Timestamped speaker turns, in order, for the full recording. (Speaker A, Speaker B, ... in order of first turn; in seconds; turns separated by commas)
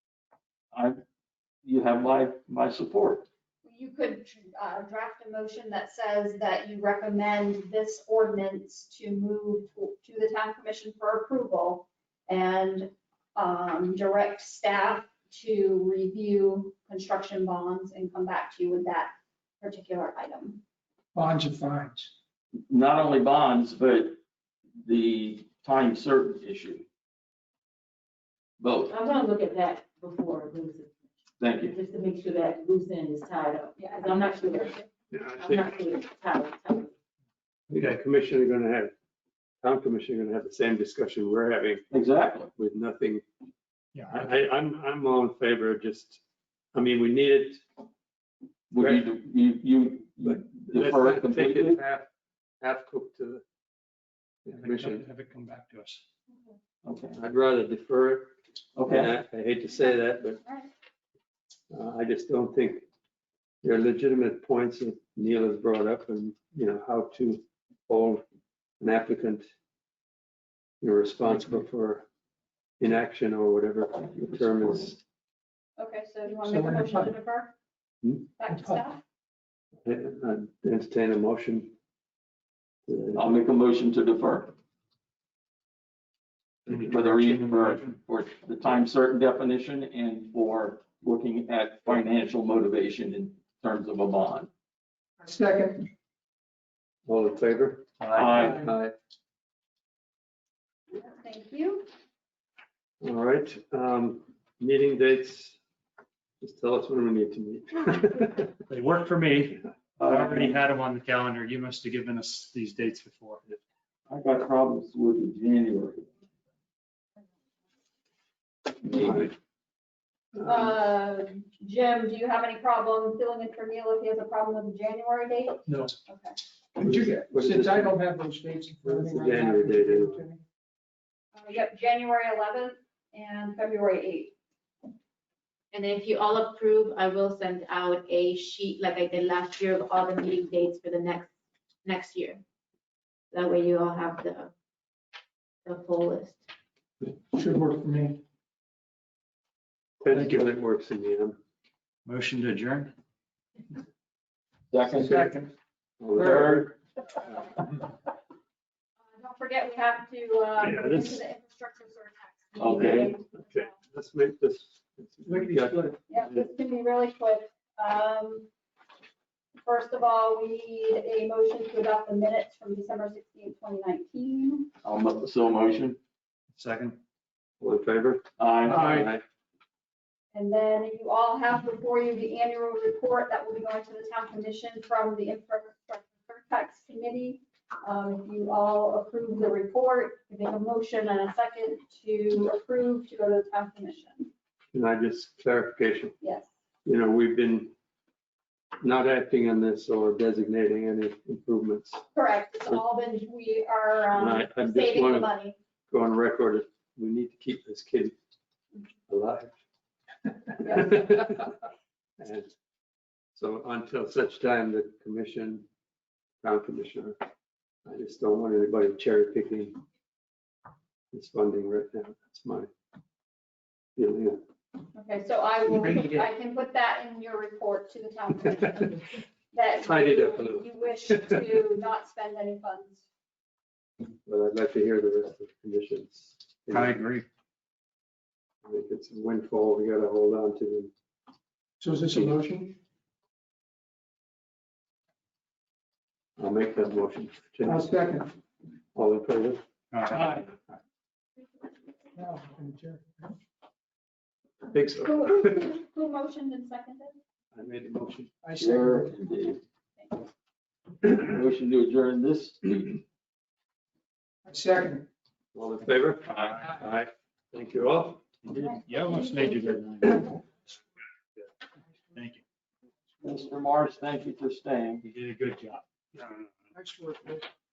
Speaker A: 0.7-1.0, Speaker A: 1.6-3.2, Speaker B: 3.6-20.6, Speaker C: 21.1-22.1, Speaker A: 22.5-24.2, Speaker A: 24.8-26.8, Speaker A: 28.6-28.9, Speaker D: 28.9-30.9, Speaker A: 31.4-31.8, Speaker D: 31.6-34.8, Speaker B: 33.8-34.9, Speaker E: 35.1-35.8, Speaker D: 35.4-36.9, Speaker E: 37.7-38.9, Speaker E: 39.6-41.8, Speaker A: 41.9-42.5, Speaker E: 42.5-43.2, Speaker F: 43.9-44.3, Speaker E: 44.1-46.2, Speaker E: 46.7-47.6, Speaker A: 48.7-51.8, Speaker E: 48.8-49.1, Speaker E: 50.2-52.1, Speaker E: 52.6-53.4, Speaker E: 54.5-55.0, Speaker F: 54.5-56.0, Speaker A: 56.8-57.2, Speaker E: 57.1-58.3, Speaker A: 58.8-59.1, Speaker E: 58.9-60.4, Speaker B: 59.7-60.7, Speaker E: 61.7-62.9, Speaker E: 63.6-68.2, Speaker E: 68.8-69.5, Speaker E: 70.8-72.0, Speaker E: 72.8-75.0, Speaker A: 74.1-74.9, Speaker B: 75.8-77.5, Speaker C: 76.4-77.1, Speaker B: 78.4-79.0, Speaker C: 78.5-78.8, Speaker E: 79.8-81.7, Speaker E: 82.9-83.2, Speaker A: 83.1-84.5, Speaker F: 86.7-87.9, Speaker A: 86.7-94.5, Speaker C: 95.2-95.9, Speaker E: 97.0-98.9, Speaker F: 98.0-98.6, Speaker A: 98.1-98.6, Speaker C: 98.4-98.7, Speaker B: 100.9-101.9, Speaker E: 103.0-105.6, Speaker E: 106.4-108.5, Speaker F: 108.7-113.6, Speaker A: 110.0-110.6, Speaker A: 114.1-116.1, Speaker E: 118.9-119.3, Speaker A: 118.9-119.3, Speaker E: 120.4-120.7, Speaker B: 120.4-126.4, Speaker C: 125.7-125.9, Speaker C: 126.8-130.4, Speaker E: 126.8-127.9, Speaker E: 128.8-130.2, Speaker B: 131.3-134.3, Speaker D: 135.7-141.3, Speaker D: 141.8-142.4, Speaker D: 143.3-144.5, Speaker D: 145.7-146.4, Speaker C: 147.3-148.2, Speaker E: 150.0-151.4, Speaker F: 150.1-150.4, Speaker F: 152.1-152.9, Speaker A: 154.7-155.2, Speaker C: 154.9-155.5, Speaker E: 156.0-156.7, Speaker C: 156.2-156.6, Speaker A: 156.2-156.7, Speaker B: 159.1-163.8, Speaker E: 160.6-161.2, Speaker A: 162.6-163.1, Speaker E: 162.7-165.9, Speaker C: 165.2-166.0, Speaker B: 166.1-168.5, Speaker B: 169.6-174.7, Speaker A: 174.8-176.0, Speaker F: 176.5-177.0, Speaker E: 177.6-179.2, Speaker A: 178.4-179.1, Speaker F: 178.7-179.1, Speaker B: 180.3-194.3, Speaker E: 194.7-196.2, Speaker B: 196.2-196.5, Speaker E: 196.8-197.7, Speaker E: 198.8-202.0, Speaker B: 202.1-205.6, Speaker E: 204.2-205.3, Speaker E: 205.9-208.1, Speaker E: 209.1-209.6, Speaker B: 210.6-211.0, Speaker E: 210.6-211.5, Speaker E: 212.2-212.5, Speaker E: 213.3-215.7, Speaker E: 216.4-217.2, Speaker E: 217.8-219.8, Speaker E: 221.1-222.7, Speaker E: 223.9-224.4, Speaker B: 224.9-233.0, Speaker E: 229.8-231.3, Speaker E: 234.2-237.0, Speaker F: 236.7-237.2, Speaker E: 238.6-240.9, Speaker C: 241.8-242.8, Speaker E: 246.4-247.8, Speaker C: 247.6-248.3, Speaker E: 248.9-249.6, Speaker F: 249.9-250.2, Speaker C: 250.1-250.5, Speaker C: 252.1-253.3, Speaker E: 254.7-255.7, Speaker B: 255.0-257.2, Speaker E: 257.5-258.3, Speaker C: 258.4-259.1, Speaker A: 258.6-259.6, Speaker B: 260.0-260.3, Speaker A: 261.0-263.0, Speaker C: 264.4-265.1, Speaker E: 265.5-268.3, Speaker F: 266.2-266.8, Speaker F: 268.4-270.6, Speaker B: 268.5-269.7, Speaker F: 272.1-272.4, Speaker A: 273.2-275.0, Speaker F: 275.0-276.5, Speaker C: 276.7-277.5